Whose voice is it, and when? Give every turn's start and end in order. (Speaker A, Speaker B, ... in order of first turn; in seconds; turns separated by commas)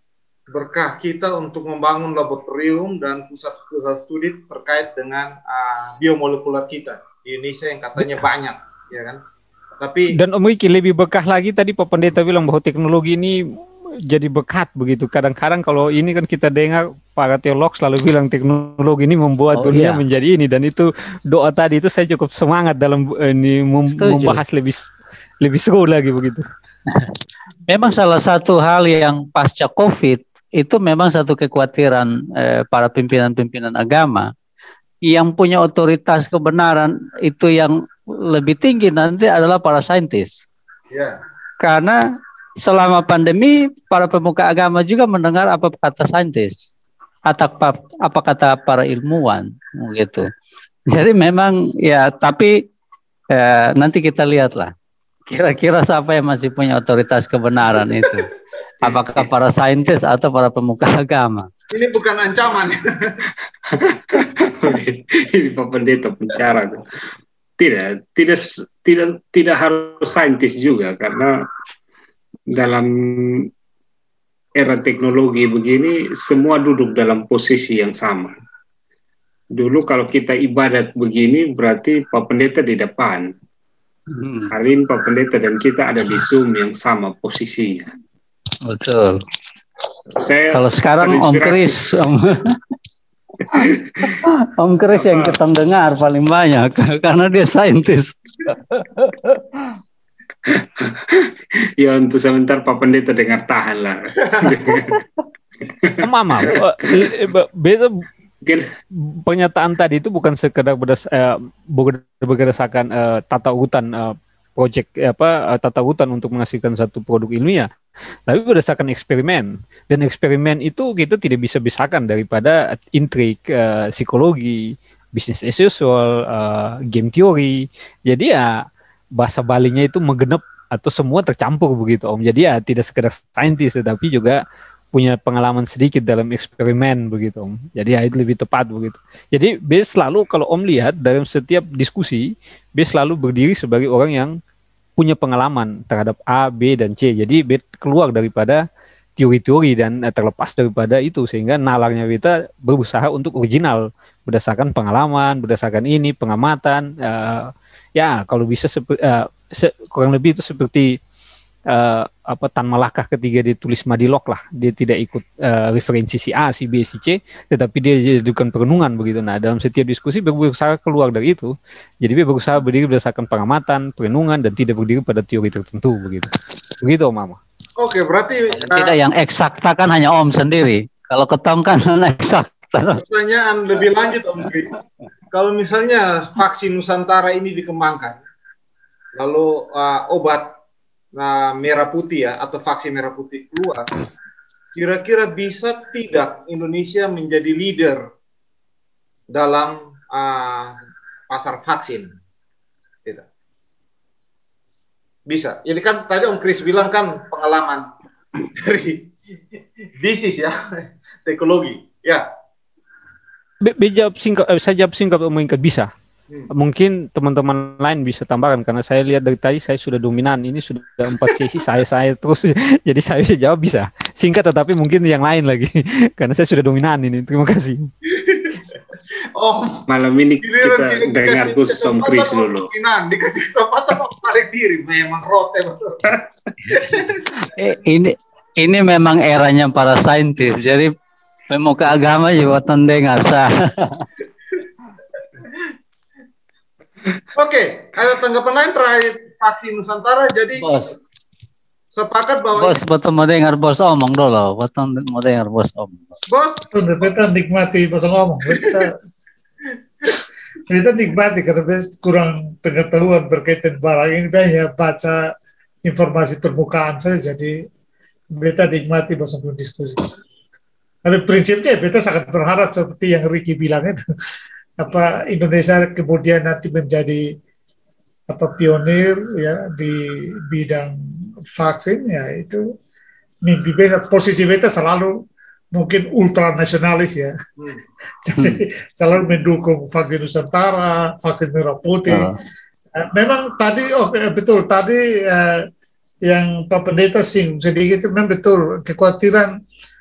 Speaker A: 0.5-9.2, Speaker A: 9.8-10.1, Speaker B: 10.1-13.4, Speaker B: 14.0-24.8, Speaker C: 19.5-20.0, Speaker C: 24.0-24.4, Speaker B: 25.4-26.5, Speaker C: 27.7-34.3, Speaker C: 35.1-37.8, Speaker C: 38.3-40.4, Speaker A: 40.9-41.2, Speaker C: 41.6-42.0, Speaker C: 42.6-46.6, Speaker C: 47.3-50.2, Speaker C: 50.9-52.5, Speaker C: 53.3-54.7, Speaker C: 55.3-58.3, Speaker C: 58.8-61.5, Speaker A: 61.7-63.2, Speaker D: 63.6-66.8, Speaker D: 67.6-71.4, Speaker D: 72.5-73.5, Speaker D: 74.6-78.3, Speaker D: 79.5-83.3, Speaker C: 84.1-84.5, Speaker D: 84.5-87.9, Speaker C: 88.7-89.2, Speaker D: 90.1-91.9, Speaker C: 90.5-92.4, Speaker D: 93.5-94.2, Speaker C: 93.5-99.7, Speaker D: 95.0-95.3, Speaker D: 100.4-105.0, Speaker D: 105.6-106.6, Speaker B: 106.0-108.0, Speaker D: 108.4-108.7, Speaker B: 108.9-117.7, Speaker B: 118.3-124.6, Speaker B: 125.1-128.5, Speaker B: 129.2-134.4, Speaker B: 134.9-144.3, Speaker B: 145.0-148.6, Speaker B: 149.2-160.9, Speaker B: 161.7-176.3, Speaker B: 176.8-177.4, Speaker A: 177.8-179.0, Speaker C: 178.5-183.0, Speaker A: 183.0-184.8, Speaker A: 185.3-188.2, Speaker A: 189.2-190.5, Speaker A: 191.2-193.9, Speaker A: 194.7-198.1, Speaker A: 199.3-200.8, Speaker A: 201.3-202.1, Speaker A: 205.3-207.9, Speaker A: 208.6-212.2, Speaker B: 213.6-215.9, Speaker B: 216.5-227.9, Speaker A: 228.1-228.8, Speaker A: 229.3-229.8, Speaker D: 229.9-232.7, Speaker A: 230.4-236.0, Speaker A: 236.7-237.2, Speaker C: 237.3-240.9, Speaker C: 241.5-244.1, Speaker A: 247.3-250.7, Speaker C: 250.6-250.9, Speaker A: 251.9-252.8, Speaker C: 252.6-256.1, Speaker A: 256.3-256.7, Speaker E: 256.7-258.9, Speaker A: 258.6-258.8, Speaker E: 260.7-265.2, Speaker E: 265.8-267.5, Speaker E: 268.3-270.1, Speaker E: 271.0-274.0, Speaker E: 274.8-277.3, Speaker E: 278.3-281.0, Speaker E: 281.5-282.6, Speaker E: 283.4-285.1, Speaker E: 285.7-287.3, Speaker E: 288.2-292.3, Speaker C: 292.1-292.3, Speaker E: 293.1-295.6, Speaker E: 296.3-299.5